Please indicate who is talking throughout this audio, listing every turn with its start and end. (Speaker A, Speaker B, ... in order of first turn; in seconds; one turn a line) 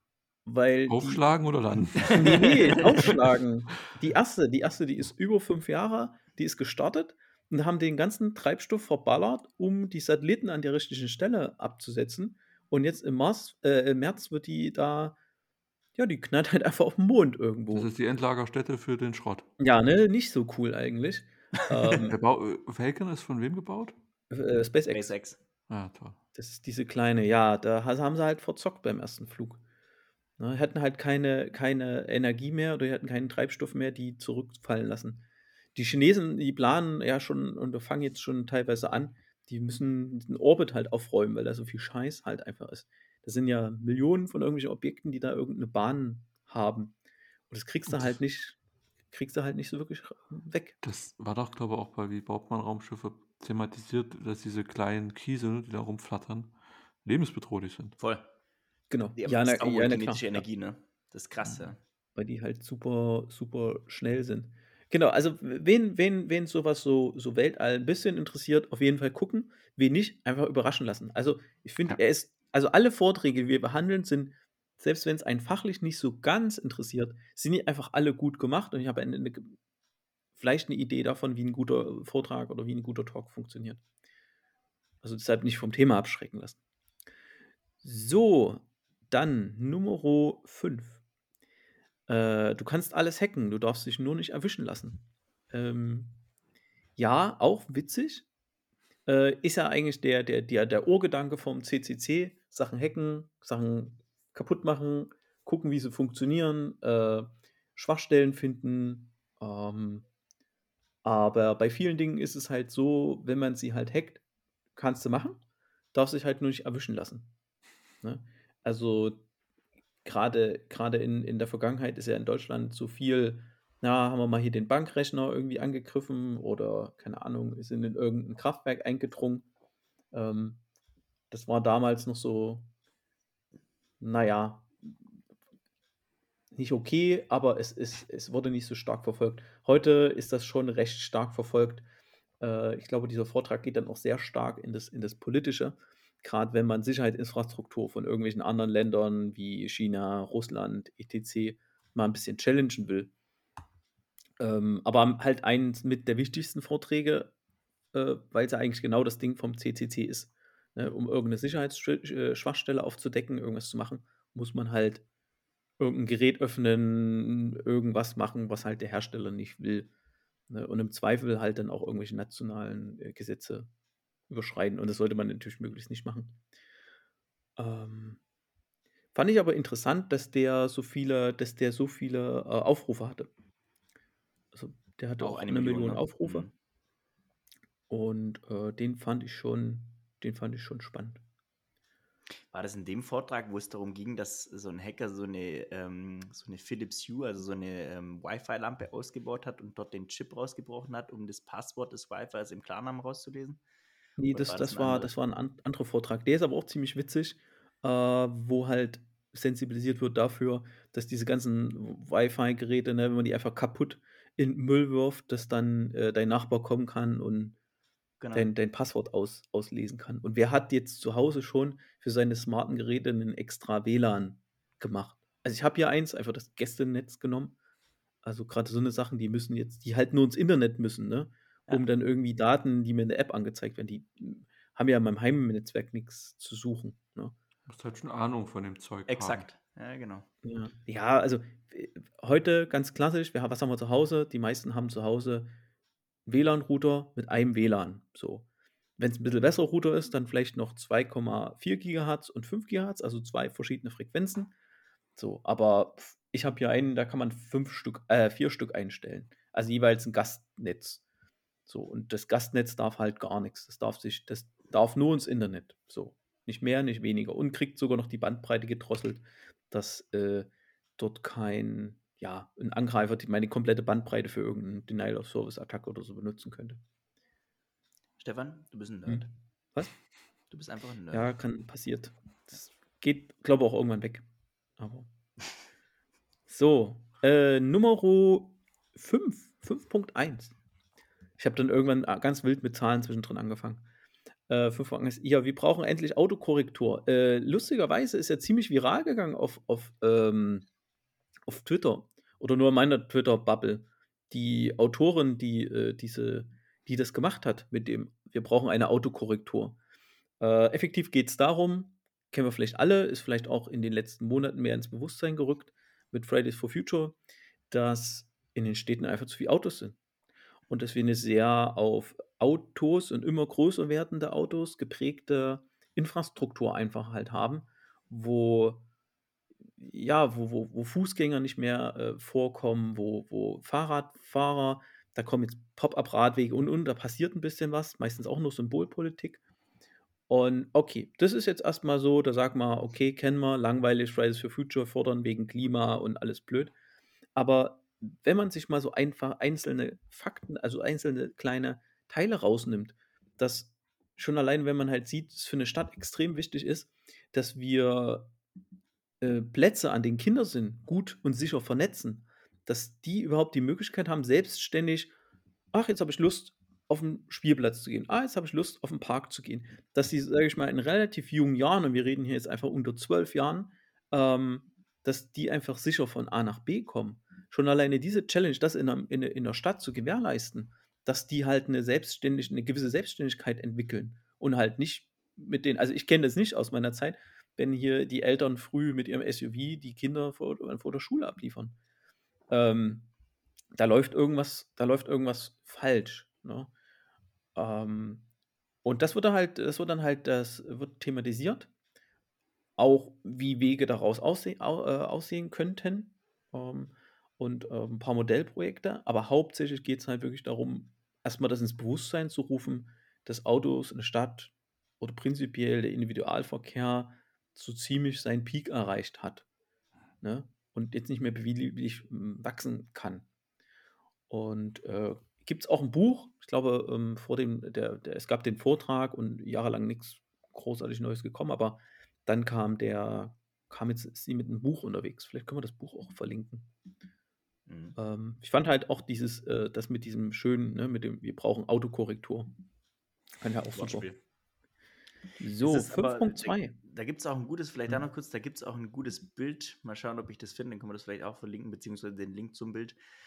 Speaker A: 0.5-1.2
Speaker B: 0.9-3.2
Speaker A: 2.0-15.2
Speaker A: 16.0-17.9
Speaker B: 17.7-19.5
Speaker A: 19.6-22.2
Speaker B: 22.0-23.9
Speaker A: 24.3-25.1
Speaker C: 24.9-25.4
Speaker B: 25.7-26.2
Speaker A: 26.4-29.6
Speaker A: 30.4-46.9
Speaker A: 47.5-48.6
Speaker B: 47.9-48.2
Speaker A: 49.1-50.8
Speaker B: 50.8-58.0
Speaker C: 58.0-58.3
Speaker A: 58.9-60.5
Speaker C: 59.2-61.8
Speaker A: 62.2-79.6
Speaker A: 80.4-83.8
Speaker A: 85.0-86.6
Speaker A: 87.8-91.0
Speaker A: 92.1-96.2
Speaker A: 97.0-98.3
Speaker A: 99.1-110.1
Speaker A: 111.0-114.2
Speaker A: 114.8-115.4
Speaker A: 115.9-117.3
Speaker A: 118.0-119.2
Speaker A: 120.0-129.4
Speaker A: 130.1-130.6
Speaker A: 131.3-132.7
Speaker A: 134.0-135.0
Speaker A: 136.6-141.8
Speaker A: 142.4-153.1
Speaker A: 154.4-157.3
Speaker A: 157.9-165.0
Speaker A: 165.8-169.9
Speaker A: 170.5-173.7
Speaker A: 174.3-176.4
Speaker A: 177.6-178.2
Speaker A: 179.1-183.3
Speaker A: 184.5-186.4
Speaker C: 185.2-186.5
Speaker A: 187.9-191.2
Speaker C: 192.5-203.6
Speaker A: 204.2-217.6
Speaker C: 204.3-205.1
Speaker C: 218.2-218.5
Speaker A: 218.3-227.6
Speaker A: 228.2-237.3
Speaker B: 237.7-239.5
Speaker C: 239.1-240.3
Speaker A: 240.4-245.5
Speaker A: 246.3-248.4
Speaker A: 249.0-254.5
Speaker A: 255.2-261.0
Speaker A: 261.7-276.8
Speaker C: 278.2-279.3
Speaker A: 279.1-279.9
Speaker C: 280.5-281.3
Speaker A: 281.1-284.3
Speaker A: 284.8-285.1
Speaker A: 286.5-290.6
Speaker A: 291.4-293.9
Speaker A: 294.5-300.7
Speaker A: 301.5-309.8
Speaker A: 310.4-317.2
Speaker A: 317.7-320.0
Speaker A: 320.7-328.9
Speaker A: 329.8-339.4
Speaker A: 340.3-346.7
Speaker A: 347.4-358.3
Speaker A: 359.2-365.1
Speaker A: 365.7-391.8
Speaker A: 392.5-393.1
Speaker A: 393.8-396.7
Speaker A: 397.6-398.3
Speaker A: 398.8-401.7
Speaker A: 402.8-419.4
Speaker A: 420.2-423.3
Speaker A: 424.3-436.7
Speaker C: 437.7-438.0
Speaker A: 438.0-442.5
Speaker A: 443.4-444.1
Speaker C: 443.8-444.2
Speaker A: 445.4-446.8
Speaker C: 445.6-453.0